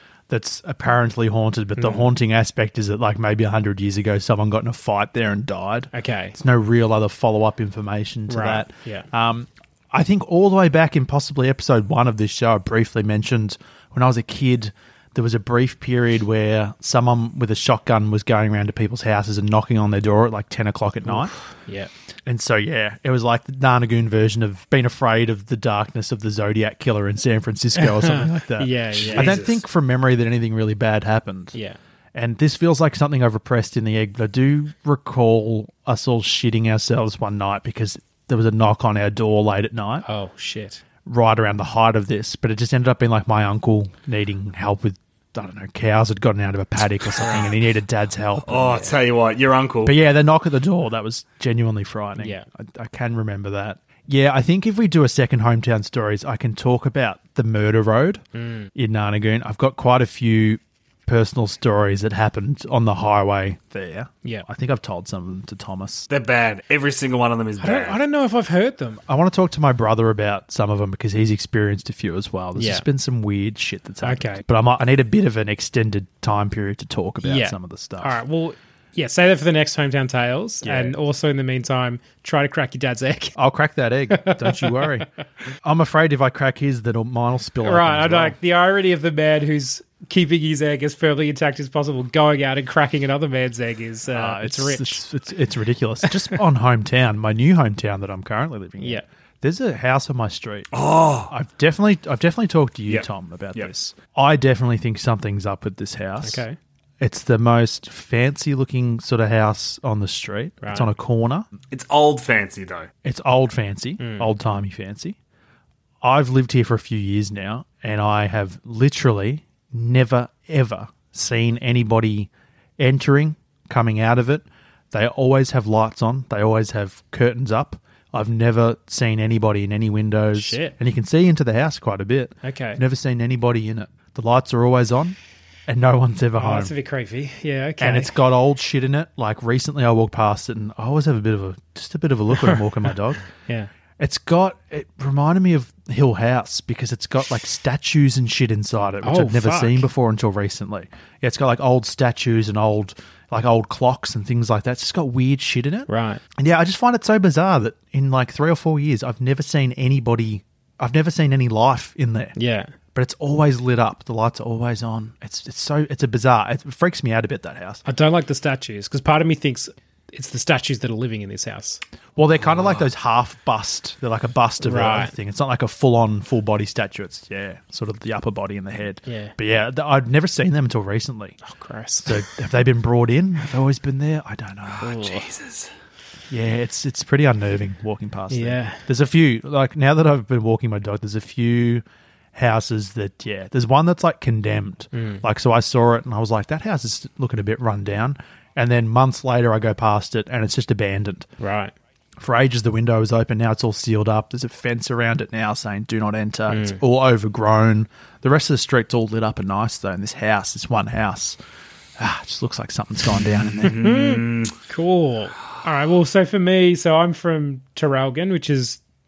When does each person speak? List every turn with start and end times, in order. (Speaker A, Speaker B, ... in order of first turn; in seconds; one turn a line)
Speaker A: 0.3-21.3
Speaker B: 1.8-2.0
Speaker B: 5.9-6.4
Speaker B: 8.3-9.1
Speaker B: 21.0-21.9
Speaker A: 22.2-31.6
Speaker B: 27.8-29.4
Speaker C: 29.0-29.6
Speaker A: 32.1-40.0
Speaker B: 40.0-40.8
Speaker A: 41.0-48.9
Speaker C: 48.4-50.0
Speaker A: 49.8-58.2
Speaker B: 52.2-52.5
Speaker B: 58.3-58.7
Speaker A: 58.7-66.1
Speaker C: 66.1-68.0
Speaker B: 67.6-69.0
Speaker A: 69.1-78.2
Speaker B: 72.5-72.8
Speaker B: 74.0-74.4
Speaker B: 77.2-83.3
Speaker A: 80.6-81.0
Speaker A: 83.3-85.1
Speaker B: 84.1-84.9
Speaker A: 85.6-88.3
Speaker B: 87.6-95.0
Speaker A: 94.1-106.4
Speaker B: 96.0-96.4
Speaker B: 98.8-99.0
Speaker C: 100.7-101.3
Speaker C: 102.9-103.7
Speaker B: 106.2-106.6
Speaker A: 107.0-111.5
Speaker B: 110.6-110.9
Speaker C: 111.7-112.9
Speaker A: 113.0-115.2
Speaker B: 114.0-114.3
Speaker A: 116.0-136.7
Speaker B: 130.3-130.8
Speaker B: 132.4-132.8
Speaker B: 136.4-138.2
Speaker A: 137.8-143.2
Speaker A: 144.0-162.3
Speaker B: 149.0-149.9
Speaker B: 155.9-156.2
Speaker B: 162.3-162.7
Speaker A: 162.9-167.8
Speaker B: 167.8-171.8
Speaker A: 172.2-181.4
Speaker B: 174.6-175.1
Speaker B: 179.1-179.3
Speaker B: 181.4-182.2
Speaker A: 182.0-185.0
Speaker C: 184.8-185.7
Speaker B: 184.8-185.2
Speaker A: 186.3-191.8
Speaker B: 188.3-188.8
Speaker A: 192.3-201.3
Speaker B: 194.9-195.2
Speaker B: 201.4-201.7
Speaker A: 202.2-211.4
Speaker B: 206.5-206.8
Speaker A: 212.0-213.8
Speaker C: 213.5-214.5
Speaker B: 213.6-218.8